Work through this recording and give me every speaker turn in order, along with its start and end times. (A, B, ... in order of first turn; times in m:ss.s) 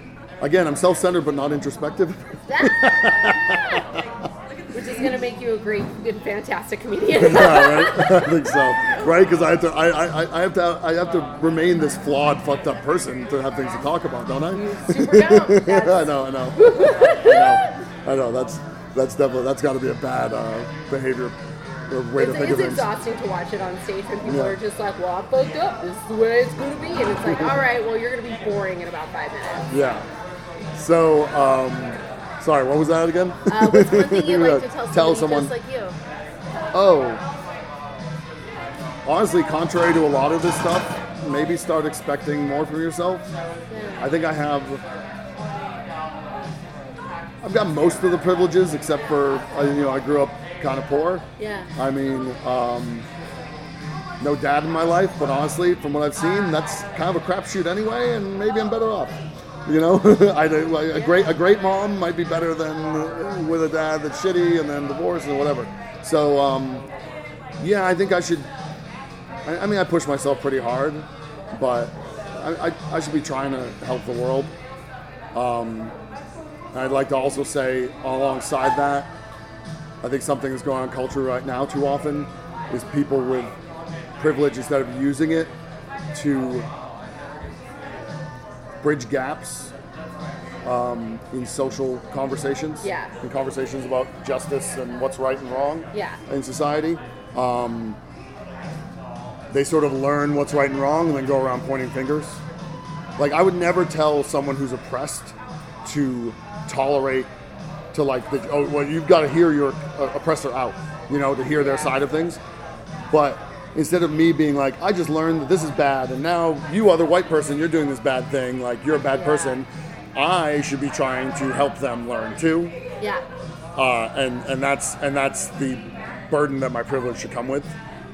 0:00.4-0:04.1 A
0:02.5-0:02.9 B
0:04.7-0:08.4 B
0:07.1-0:21.4 A
0:14.5-0:17.7 B
0:21.9-0:22.9 A
0:22.2-0:29.7 B
0:24.2-0:24.6 A
0:27.2-0:27.6 A
0:29.7-0:30.1 A
0:30.7-0:35.5 A
0:33.5-0:36.0 B
0:36.7-0:37.2 A
0:39.0-0:43.3 A
0:43.7-0:44.1 B
0:44.0-0:44.8 A
0:47.4-0:53.1 A
0:51.4-0:51.7 B
0:54.2-1:06.9 A
1:00.9-1:01.3 B
1:07.6-1:08.5 A
1:09.4-1:14.5 A
1:15.3-1:16.0 A
1:16.7-1:19.1 A
1:20.0-1:23.6 A
1:24.2-1:25.5 A
1:26.1-1:26.7 A
1:28.8-1:29.7 A
1:30.6-1:38.0 A
1:32.8-1:33.2 B
1:35.9-1:36.2 B
1:39.5-1:42.4 A
1:43.2-1:47.3 A
1:47.9-1:52.4 A
1:51.6-1:51.9 B
1:53.1-2:02.7 A
1:59.2-1:59.5 B
2:03.7-2:07.8 A